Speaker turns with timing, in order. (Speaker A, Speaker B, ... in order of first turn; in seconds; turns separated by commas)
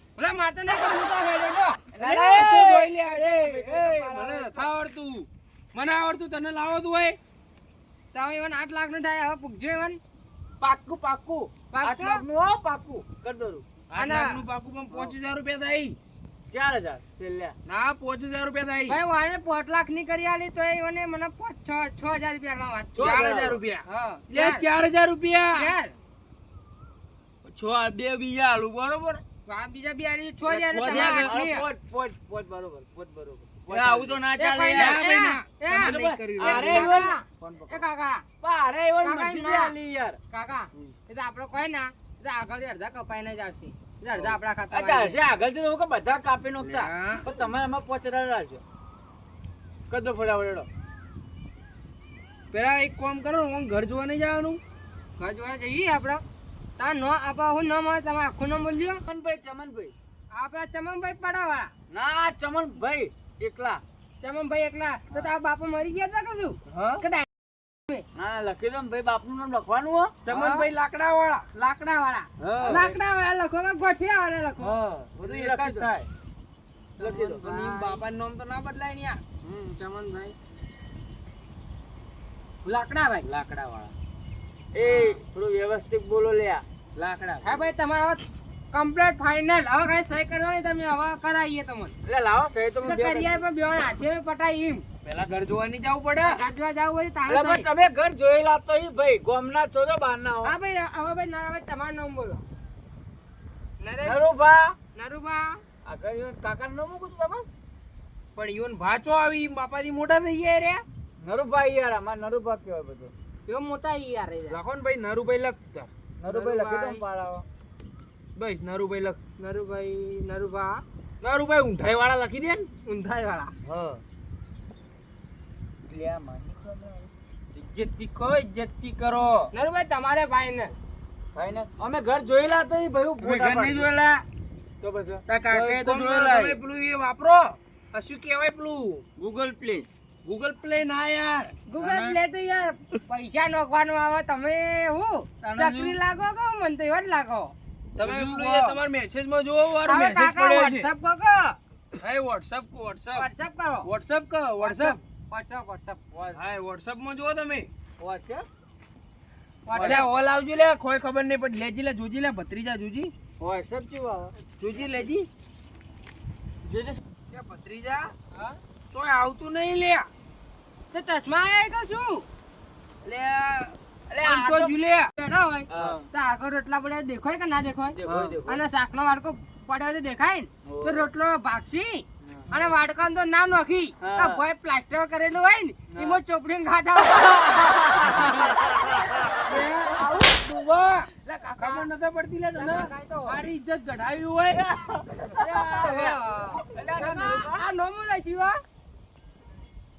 Speaker A: 0.2-1.8, Speaker B: 1.9-4.7, Speaker C: 2.0-7.2, Speaker A: 8.1-10.0, Speaker B: 10.6-13.6, Speaker A: 11.7-12.2, Speaker C: 13.9-16.0, Speaker A: 14.0-14.4, Speaker B: 16.5-17.6, Speaker C: 17.7-19.0, Speaker A: 18.9-24.6, Speaker B: 23.0-23.6, Speaker C: 23.0-25.7, Speaker A: 25.6-26.0, Speaker D: 27.4-29.2, Speaker A: 29.5-31.7, Speaker B: 30.5-34.2, Speaker D: 30.7-31.3, Speaker D: 33.7-35.0, Speaker A: 34.4-38.2, Speaker C: 34.7-37.0, Speaker B: 35.8-37.8, Speaker B: 38.4-40.2, Speaker A: 39.0-39.7, Speaker A: 40.3-45.2, Speaker B: 44.1-48.6, Speaker C: 46.6-47.3, Speaker B: 49.9-50.7, Speaker C: 52.5-54.6, Speaker A: 55.2-56.2, Speaker A: 56.8-59.0, Speaker B: 59.1-59.9, Speaker A: 60.3-61.7, Speaker B: 61.9-63.8, Speaker A: 64.2-67.3, Speaker C: 66.7-67.0, Speaker B: 68.2-70.1, Speaker C: 70.2-71.5, Speaker A: 70.3-70.7, Speaker A: 71.5-74.7, Speaker C: 72.4-73.0, Speaker C: 74.6-76.1, Speaker B: 75.2-75.9, Speaker B: 77.0-77.4, Speaker C: 77.0-79.2, Speaker A: 77.3-78.0, Speaker C: 79.8-80.2, Speaker A: 82.6-83.3, Speaker D: 83.2-83.9, Speaker B: 84.7-86.6, Speaker D: 87.0-87.5, Speaker A: 87.4-91.9, Speaker B: 92.1-93.4, Speaker A: 92.8-94.8, Speaker C: 95.0-96.4, Speaker A: 96.2-97.7, Speaker B: 97.3-100.5, Speaker A: 100.4-102.4, Speaker A: 103.8-104.2, Speaker B: 104.0-104.8, Speaker A: 105.0-105.6, Speaker B: 105.9-107.5, Speaker C: 108.4-110.8, Speaker B: 111.2-113.1, Speaker A: 113.5-114.6, Speaker C: 114.5-115.9, Speaker B: 116.2-117.5, Speaker A: 116.3-117.0, Speaker C: 118.4-119.2, Speaker A: 119.4-120.8, Speaker C: 121.2-122.7, Speaker A: 122.9-123.5, Speaker C: 123.6-124.0, Speaker B: 125.9-127.1, Speaker D: 127.5-129.5, Speaker A: 129.5-130.7, Speaker B: 131.3-133.9, Speaker D: 133.2-134.2, Speaker B: 134.8-135.2, Speaker D: 135.3-136.6, Speaker C: 135.5-139.0, Speaker D: 139.2-139.9, Speaker C: 140.2-141.6, Speaker A: 141.7-147.5, Speaker D: 141.8-142.2, Speaker D: 145.4-146.0, Speaker C: 148.0-150.9, Speaker D: 148.0-148.8, Speaker A: 149.8-151.6, Speaker C: 152.0-153.3, Speaker A: 153.1-153.9, Speaker C: 153.8-155.0, Speaker A: 154.6-156.0, Speaker B: 156.1-156.4, Speaker C: 156.3-157.7, Speaker B: 158.0-158.4, Speaker A: 159.7-160.1, Speaker C: 159.7-163.1, Speaker B: 159.7-160.1, Speaker B: 163.4-164.3, Speaker C: 164.6-165.3, Speaker B: 166.6-167.0, Speaker C: 167.3-168.2, Speaker C: 168.9-170.1, Speaker A: 170.9-172.3, Speaker C: 173.1-175.1, Speaker B: 174.1-174.8, Speaker A: 175.2-188.3, Speaker B: 175.7-176.0, Speaker D: 175.8-176.1, Speaker B: 178.0-178.6, Speaker D: 178.1-178.3, Speaker B: 180.7-181.1, Speaker B: 182.3-182.7, Speaker B: 184.0-184.4, Speaker B: 185.9-186.2, Speaker C: 189.4-195.0, Speaker A: 191.3-191.9, Speaker A: 192.6-193.4, Speaker B: 194.5-197.7, Speaker A: 195.4-198.6